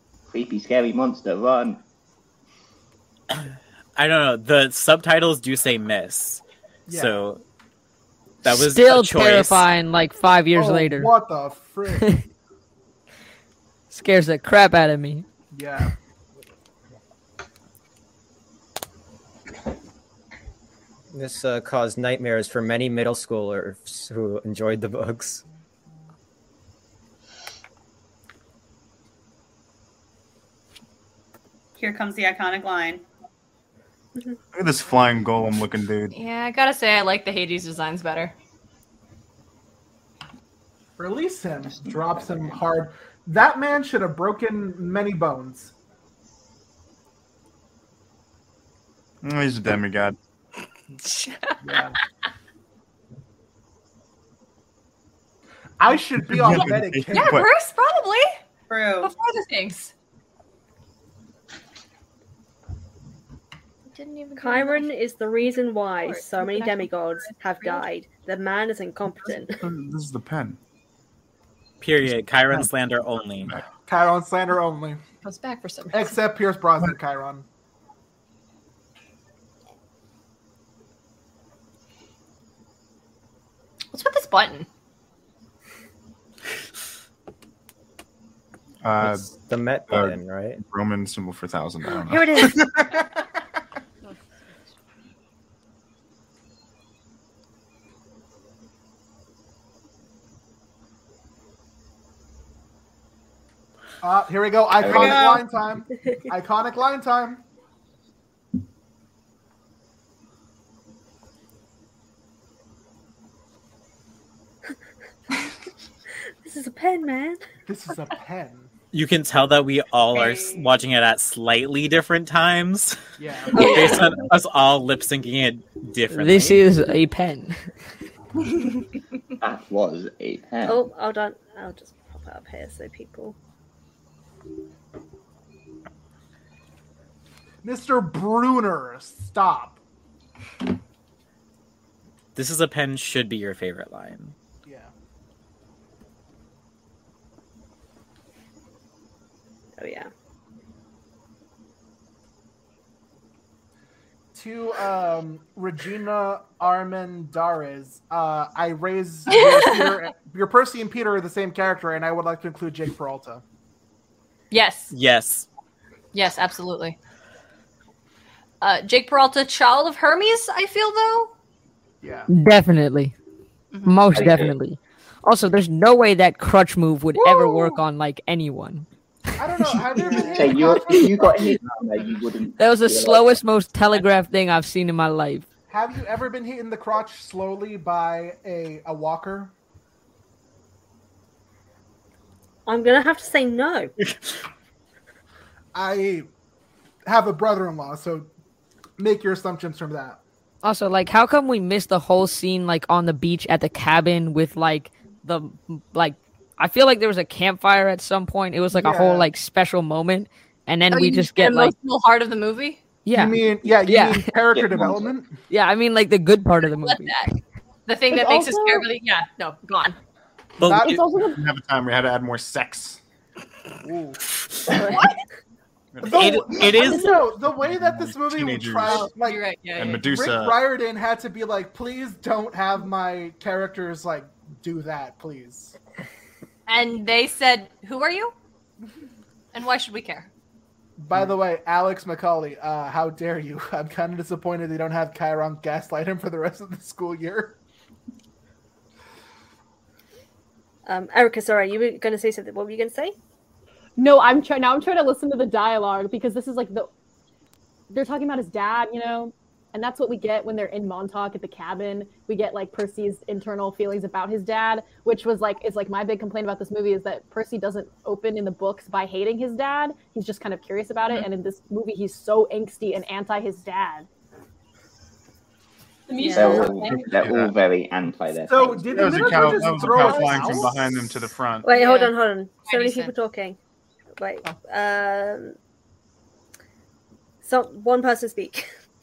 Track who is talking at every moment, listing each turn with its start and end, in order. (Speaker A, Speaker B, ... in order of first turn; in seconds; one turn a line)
Speaker A: 0.3-1.8
Speaker B: 3.4-7.4
Speaker C: 6.9-7.2
Speaker B: 8.4-9.7
Speaker D: 8.4-11.1
Speaker C: 10.5-12.1
Speaker D: 13.9-15.2
Speaker C: 15.5-15.9
Speaker E: 21.1-25.4
Speaker F: 31.8-33.0
Speaker G: 34.5-36.1
Speaker H: 36.1-38.3
Speaker C: 41.0-45.7
Speaker A: 41.7-42.6
Speaker G: 49.2-50.2
Speaker H: 51.0-51.6
Speaker C: 51.6-52.0
Speaker C: 55.8-57.4
Speaker G: 55.9-57.5
Speaker H: 56.5-58.4
Speaker F: 58.7-59.1
Speaker H: 59.0-59.9
Speaker H: 63.9-64.9
Speaker I: 64.4-69.6
Speaker H: 66.0-67.9
Speaker G: 69.4-70.6
Speaker B: 71.8-73.5
Speaker G: 72.0-72.7
Speaker C: 73.8-75.0
Speaker H: 75.2-76.2
Speaker C: 75.9-77.4
Speaker H: 83.9-84.7
Speaker G: 88.8-89.3
Speaker E: 89.0-90.6
Speaker G: 89.9-92.7
Speaker I: 91.9-92.7
Speaker C: 104.0-107.4
Speaker A: 104.8-105.3
Speaker F: 104.9-105.4
Speaker I: 116.4-117.4
Speaker C: 117.7-118.7
Speaker B: 118.9-123.0
Speaker I: 120.1-120.6
Speaker C: 123.2-123.8
Speaker B: 123.5-126.6
Speaker I: 123.5-124.2
Speaker D: 126.1-127.7
Speaker A: 129.4-130.8
Speaker I: 130.7-133.3
Speaker C: 137.6-139.8
Speaker B: 142.3-144.3
Speaker C: 144.6-144.9
Speaker I: 149.8-150.1
Speaker C: 154.3-163.4
Speaker H: 159.3-160.1
Speaker H: 164.5-164.9
Speaker B: 164.9-165.5
Speaker H: 166.1-167.0
Speaker H: 168.6-171.3
Speaker C: 172.0-172.3
Speaker D: 172.3-173.1
Speaker H: 173.7-174.2
Speaker D: 173.8-178.9
Speaker A: 174.1-174.5
Speaker C: 177.1-177.8
Speaker C: 179.4-181.6
Speaker D: 179.4-180.2
Speaker A: 180.2-183.4
Speaker D: 182.6-185.4
Speaker C: 185.7-189.5
Speaker I: 192.7-193.9
Speaker C: 195.7-196.3
Speaker C: 197.0-198.3
Speaker C: 199.0-200.2
Speaker D: 200.6-211.7
Speaker C: 208.7-209.3
Speaker H: 210.9-212.8
Speaker D: 213.0-214.3
Speaker C: 213.1-215.4
Speaker A: 214.5-215.2
Speaker D: 215.5-217.4
Speaker H: 216.7-217.3
Speaker H: 217.8-220.0
Speaker J: 218.1-218.9
Speaker B: 220.6-221.0
Speaker J: 220.8-221.4
Speaker G: 221.2-223.0
Speaker C: 223.8-224.2
Speaker H: 224.8-225.2
Speaker G: 225.9-229.1
Speaker C: 226.0-235.8
Speaker B: 226.1-227.2
Speaker H: 228.9-230.1
Speaker G: 229.7-230.6
Speaker H: 236.7-238.3
Speaker H: 239.5-240.3
Speaker C: 241.0-247.6
Speaker I: 250.8-253.1
Speaker J: 254.0-256.9
Speaker J: 257.9-274.1
Speaker J: 276.1-277.0
Speaker H: 276.1-276.7
Speaker A: 276.3-279.4
Speaker G: 276.4-277.5
Speaker C: 278.4-280.9
Speaker G: 278.9-281.7
Speaker J: 279.5-280.7
Speaker I: 281.6-283.6
Speaker H: 281.7-282.1
Speaker H: 282.6-283.1
Speaker I: 284.2-285.5
Speaker I: 287.4-288.7